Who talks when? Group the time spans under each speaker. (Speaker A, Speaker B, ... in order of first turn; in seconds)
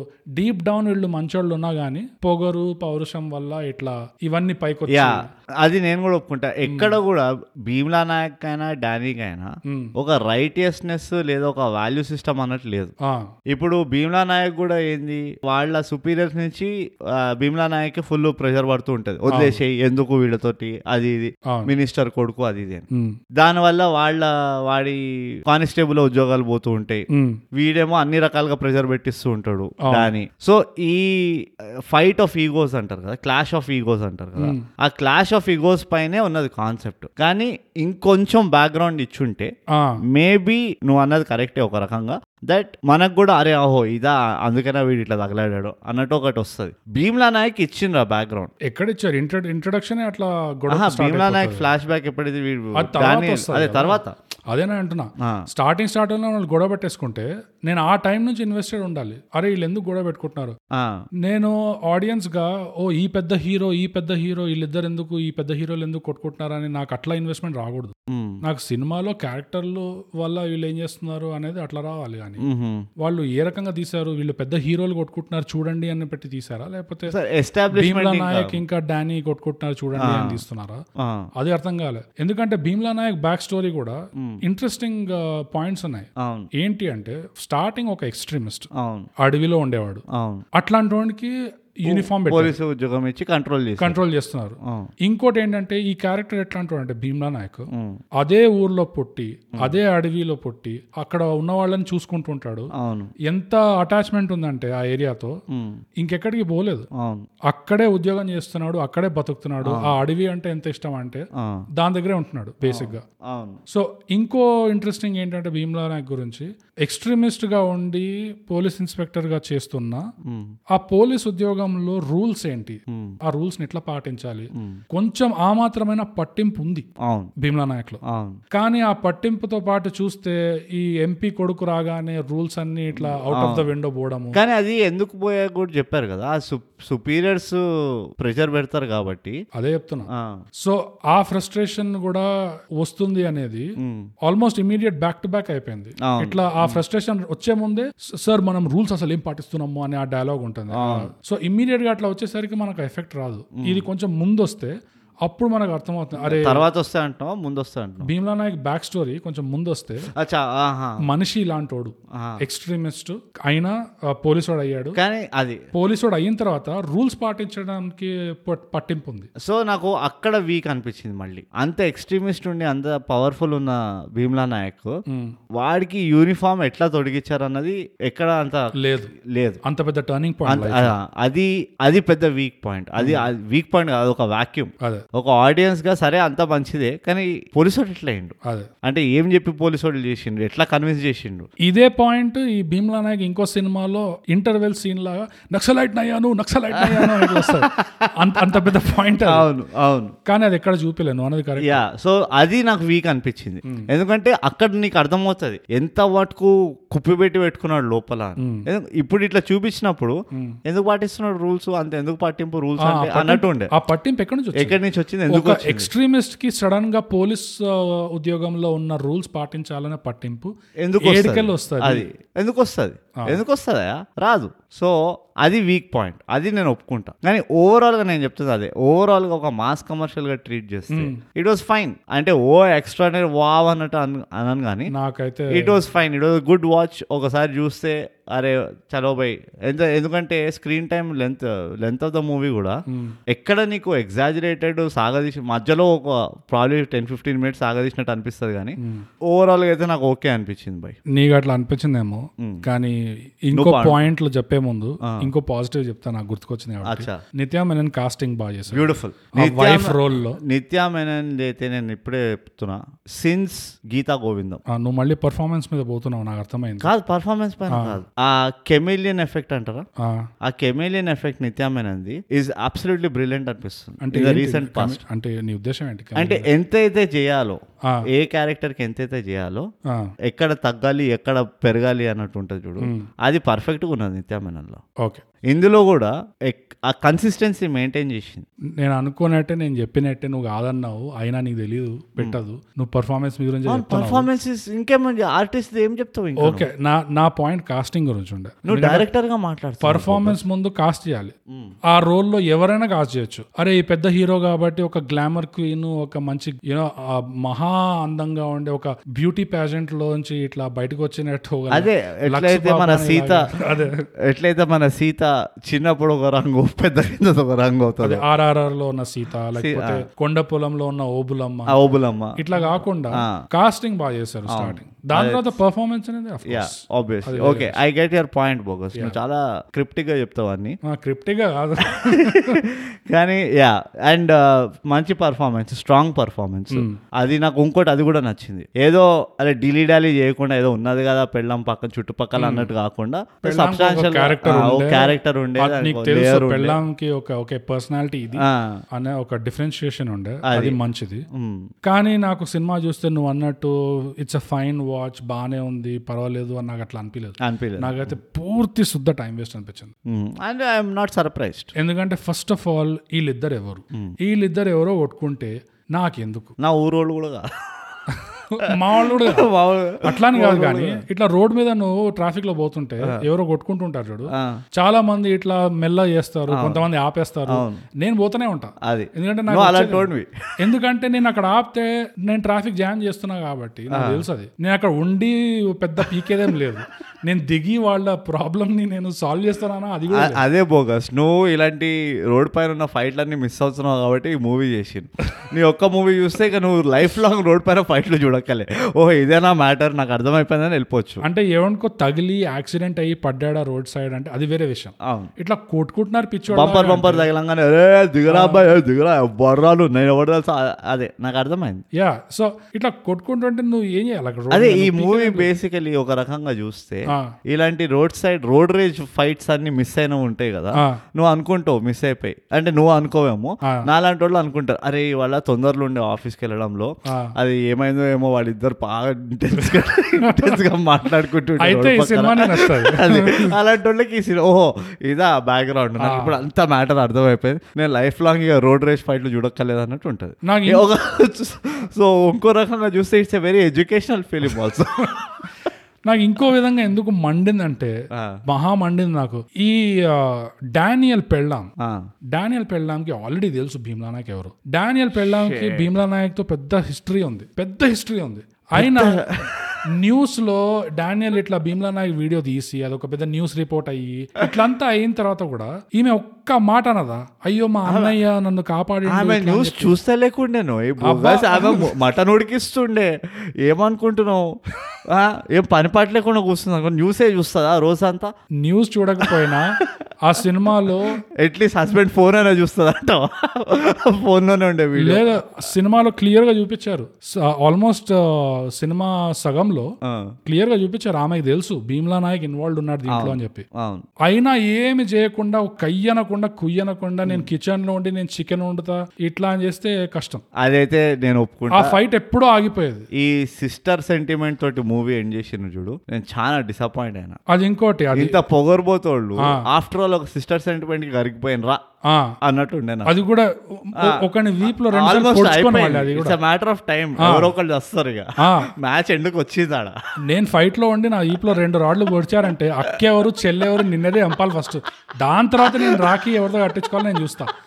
Speaker A: 0.3-5.3, 6.6-7.0, 9.7-9.9, 19.3-19.6, 27.1-27.4, 29.8-30.1, 34.4-34.6, 39.7-40.0, 48.6-51.7, 52.8-60.6, 61.2-72.4, 73.0-77.1, 77.7-80.8, 81.3-88.7, 89.2-92.5, 93.8-102.7, 103.2-105.4, 106.0-106.9, 107.5-113.0, 113.7-120.0, 120.7-126.9, 127.4-128.0, 128.5-134.4, 139.5-142.3, 142.8-143.7, 144.2-156.6, 158.0-160.1, 161.0-165.0, 165.7-169.3, 175.1-175.3, 178.8-179.1, 179.6-180.9, 183.0-183.3, 191.6-199.5, 200.2-201.8, 208.4-208.7, 210.3-210.6, 212.8-222.1, 230.9-231.2, 234.9-235.8, 242.9-243.2, 248.8-249.1, 251.1-260.4, 264.7-266.9, 267.7-268.0, 270.0-270.3, 274.0-276.5, 279.9-280.1, 282.8-283.1, 288.8-294.3, 296.4-299.1, 299.8-301.3, 301.9-313.9, 318.0-321.8, 322.3-327.8, 330.9-332.6, 336.7-337.0, 342.4-342.7, 343.4-351.2, 351.8-359.9, 361.8-366.5, 368.1-369.5, 370.0-390.4, 401.2-407.3, 408.3-408.6, 411.9-415.5, 427.1-427.3, 429.6-430.6, 431.6-433.5, 436.0-436.4, 440.4-440.9, 446.1-451.7, 452.3-469.9, 471.0-471.9, 478.6-481.2, 485.0-489.9, 490.4-493.6, 494.2-500.4, 501.7-503.1, 507.5-508.4, 509.4-509.6, 512.1-512.4, 513.0-516.4, 517.2-517.5, 518.4-518.7, 520.2-527.5
Speaker B: 4.9-12.9, 13.5-39.5, 40.1-48.5, 50.7-54.1, 60.7-61.0, 68.1-68.4, 72.4-72.8, 77.1-78.6, 80.0-80.4, 81.0-81.3, 84.2-84.4, 86.2-86.5, 88.7-89.1, 90.1-90.4, 91.8-94.0, 94.6-94.9, 97.7-98.0, 102.7-103.1, 105.5-105.8, 106.9-107.3, 109.6-110.0, 111.3-111.6, 112.6-113.6, 120.2-120.5, 122.9-123.2, 124.5-124.8, 127.0-127.3, 128.0-128.4, 132.9-133.7, 134.3-137.6, 138.2-139.4, 140.1-140.4, 143.8-144.1, 146.0-146.8, 150.7-151.1, 153.6-153.8, 156.2-158.1, 160.1-161.0, 162.1-162.4, 164.9-165.6, 169.4-175.0, 175.6-178.7, 179.3-179.6, 180.5-188.3, 188.8-191.5, 196.7-198.6, 199.2-200.1, 201.6-213.7, 214.6-215.9, 220.8-234.9, 235.5-242.8, 243.3-251.0, 252.4-252.6, 253.5-254.0, 255.0-255.3, 256.8-257.2, 258.7-264.6, 266.8-269.9, 270.4-275.0, 276.1-279.7, 280.2-284.8, 285.5-288.4, 293.7-296.7, 298.6-300.4, 301.5-301.8, 311.7-313.5, 314.3-318.2, 319.5-320.0, 321.7-323.4, 324.5-325.4, 326.4-330.8, 331.8-346.8, 348.4-348.8, 350.4-350.8, 351.3-351.7, 357.4-358.1, 360.1-361.7, 366.6-368.0, 368.6-371.0, 374.3-374.6, 376.5-376.8, 377.5-377.8, 378.8-380.3, 383.9-384.2, 390.1-401.2, 405.0-405.3, 406.5-411.8, 414.5-445.5, 448.1-448.4, 455.2-455.9, 458.8-459.8, 467.9-468.1, 469.1-473.1, 473.6-474.5, 475.1-478.3, 479.2-479.9, 481.4-485.4, 490.0-490.3, 493.1-494.1, 500.6-502.0, 503.1-507.4, 508.1-511.8, 512.4-513.1, 514.0-514.2, 514.8-520.0, 525.6-526.1